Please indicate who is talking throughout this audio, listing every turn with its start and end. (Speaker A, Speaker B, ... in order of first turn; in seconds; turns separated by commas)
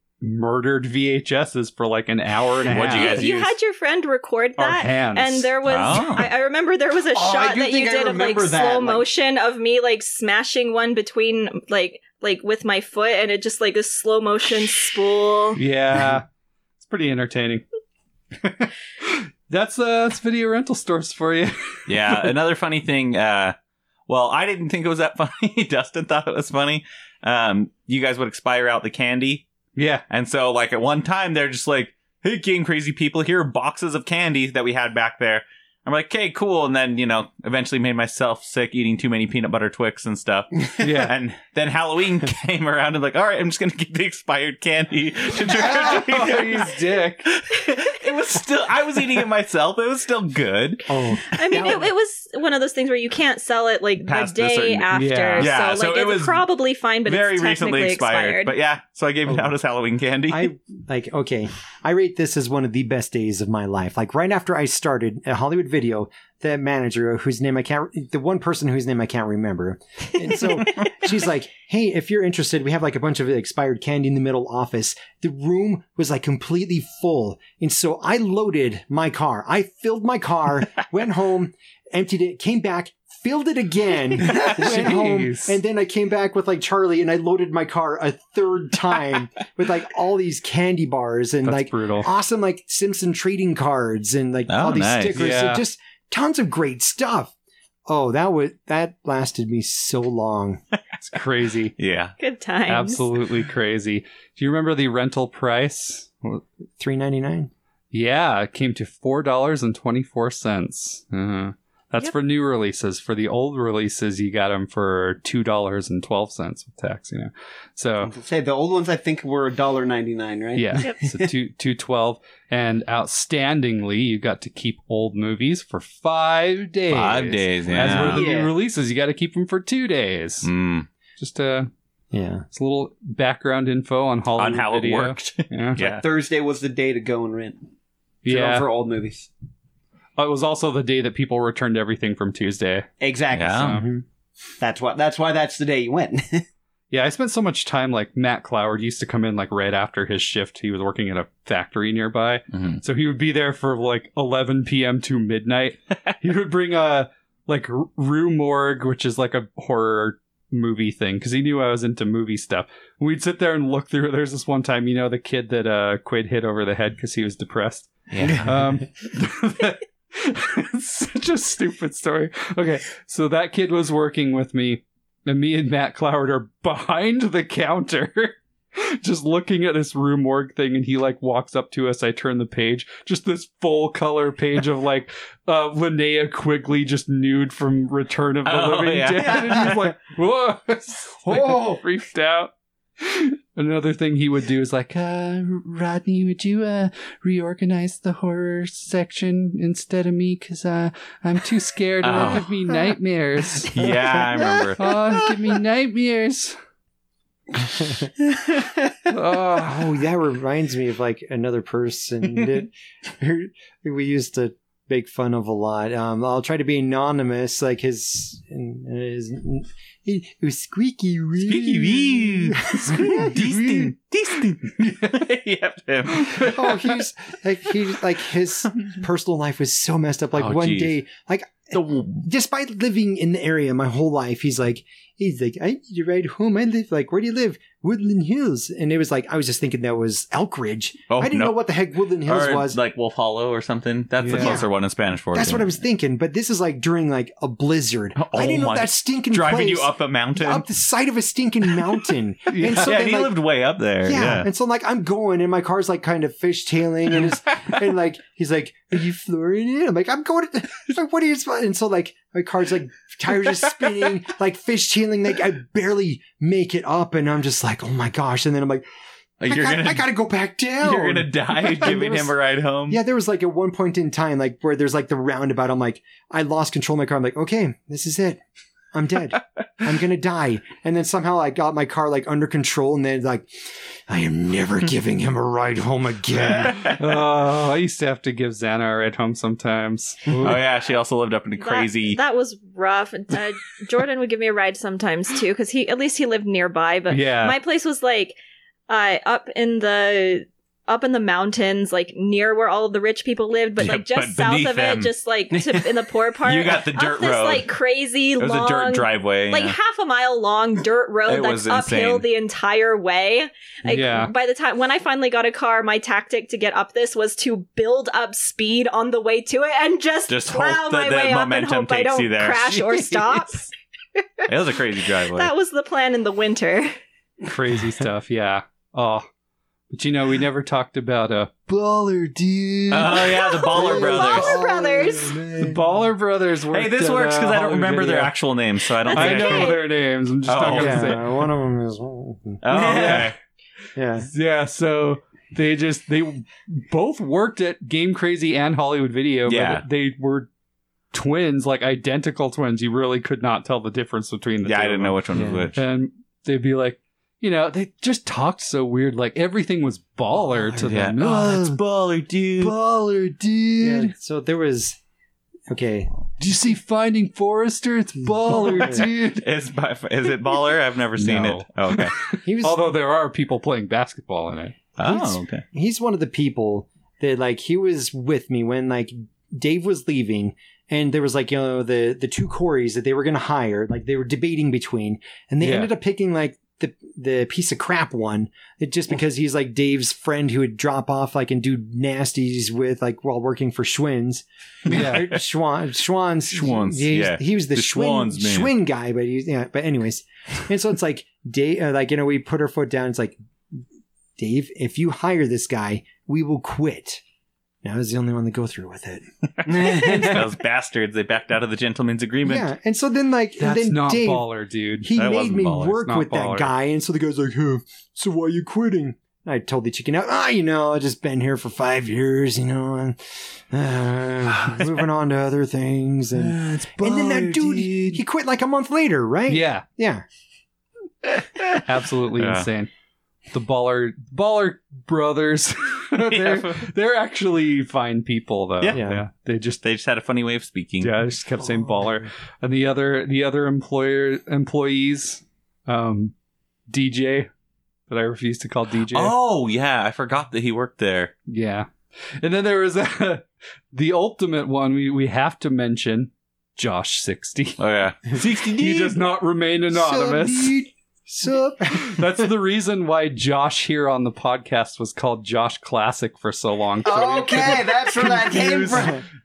Speaker A: 0.2-3.2, Speaker B: 2.6-3.5, Speaker C: 2.9-15.6, Speaker A: 4.6-5.5, Speaker B: 5.6-6.3, Speaker D: 7.1-9.1, Speaker A: 15.6-16.2, Speaker A: 16.8-17.6, Speaker A: 18.4-22.3, Speaker B: 21.9-23.6, Speaker B: 24.1-29.4, Speaker A: 29.8-30.0, Speaker B: 30.1-46.7, Speaker A: 40.8-41.1, Speaker A: 45.5-47.3, Speaker B: 47.3-51.4, Speaker E: 50.9-51.9, Speaker C: 51.2-58.5, Speaker B: 54.1-56.5, Speaker A: 54.9-55.5, Speaker B: 57.0-60.5, Speaker E: 59.3-59.5, Speaker E: 60.3-97.3, Speaker A: 84.3-85.6, Speaker A: 91.4-92.1, Speaker B: 94.5-95.2, Speaker A: 95.1-95.6, Speaker E: 97.9-100.6, Speaker A: 101.0-101.8, Speaker B: 101.8-102.1, Speaker C: 102.2-103.1, Speaker A: 102.7-106.4, Speaker E: 106.8-107.5, Speaker A: 107.9-118.1, Speaker D: 118.0-121.3, Speaker A: 120.5-130.5, Speaker B: 126.9-128.3, Speaker D: 127.8-128.5, Speaker B: 130.4-130.9, Speaker A: 131.2-131.7, Speaker E: 132.1-132.4, Speaker A: 132.5-135.8, Speaker B: 134.4-136.1, Speaker D: 135.8-137.7, Speaker A: 138.2-138.7, Speaker D: 138.3-139.3, Speaker A: 140.2-142.9, Speaker D: 143.0-143.9, Speaker B: 143.3-143.8, Speaker A: 143.5-143.8, Speaker E: 143.8-144.0, Speaker D: 144.6-146.4, Speaker A: 146.9-206.6, Speaker B: 152.5-152.8, Speaker B: 168.1-168.5, Speaker B: 188.4-189.8, Speaker D: 191.3-191.8, Speaker B: 202.0-202.5, Speaker B: 203.7-204.9, Speaker E: 204.2-204.8, Speaker E: 207.6-208.1, Speaker A: 209.1-209.8, Speaker E: 209.3-223.9, Speaker B: 221.4-226.6, Speaker A: 226.1-226.7, Speaker E: 226.4-242.8, Speaker B: 230.3-230.9, Speaker B: 231.7-232.1, Speaker B: 241.1-241.6, Speaker B: 242.2-245.7, Speaker A: 244.2-244.6, Speaker E: 244.3-244.7, Speaker E: 245.3-253.4, Speaker B: 248.2-250.6, Speaker A: 252.5-253.0, Speaker B: 252.8-254.5, Speaker E: 254.0-268.8, Speaker B: 269.4-270.1, Speaker E: 269.4-272.4, Speaker B: 270.8-273.0, Speaker E: 272.9-278.4, Speaker E: 278.9-283.5, Speaker E: 284.1-287.0, Speaker B: 286.5-287.0, Speaker A: 286.9-290.6, Speaker B: 290.4-292.2, Speaker C: 291.6-298.4, Speaker A: 297.1-297.6, Speaker C: 298.9-324.5, Speaker B: 303.8-305.8, Speaker B: 306.4-307.7, Speaker B: 308.4-309.8, Speaker B: 311.2-312.2, Speaker A: 313.9-314.3, Speaker B: 320.3-322.9, Speaker B: 324.5-325.5, Speaker C: 325.2-326.9, Speaker A: 327.4-329.2, Speaker A: 329.9-331.7, Speaker E: 331.7-336.1, Speaker B: 332.9-334.6, Speaker C: 333.2-335.4, Speaker A: 335.6-338.3, Speaker B: 336.7-339.8, Speaker C: 338.9-339.8, Speaker A: 339.1-341.3, Speaker B: 340.5-341.2, Speaker E: 340.6-343.2, Speaker B: 342.6-343.4, Speaker A: 342.7-343.3, Speaker E: 343.9-344.3, Speaker A: 344.2-350.5, Speaker B: 349.5-349.8, Speaker A: 351.1-361.8, Speaker B: 354.6-355.8, Speaker E: 355.4-355.7, Speaker E: 360.3-361.0, Speaker B: 360.8-362.7, Speaker A: 362.6-364.1, Speaker E: 363.8-365.0, Speaker E: 365.7-366.1, Speaker A: 366.4-369.4, Speaker E: 368.4-369.1, Speaker B: 369.0-372.1, Speaker A: 371.2-374.8, Speaker E: 372.4-372.9, Speaker B: 375.0-375.6, Speaker E: 375.0-403.4, Speaker A: 385.6-385.9, Speaker A: 394.9-395.3, Speaker B: 394.9-395.4, Speaker B: 396.5-398.7, Speaker E: 404.4-407.2, Speaker E: 407.8-410.4, Speaker B: 409.6-412.7, Speaker D: 409.6-410.4, Speaker E: 412.4-414.5, Speaker A: 413.6-415.1, Speaker E: 415.0-430.2, Speaker B: 415.1-416.0, Speaker A: 416.0-416.7, Speaker B: 426.5-428.0, Speaker A: 429.5-429.8, Speaker A: 431.8-432.9, Speaker B: 432.4-432.7, Speaker A: 433.5-439.8, Speaker B: 436.3-436.9, Speaker E: 438.9-439.2, Speaker B: 439.8-441.1, Speaker A: 441.0-446.3, Speaker E: 441.7-442.1, Speaker A: 446.9-447.5, Speaker A: 448.1-449.3, Speaker B: 449.1-451.3, Speaker A: 451.5-451.9, Speaker A: 452.4-457.8, Speaker B: 457.8-459.2, Speaker A: 458.3-460.8, Speaker E: 459.9-462.5, Speaker A: 461.9-469.1, Speaker D: 467.0-469.2, Speaker E: 468.9-469.2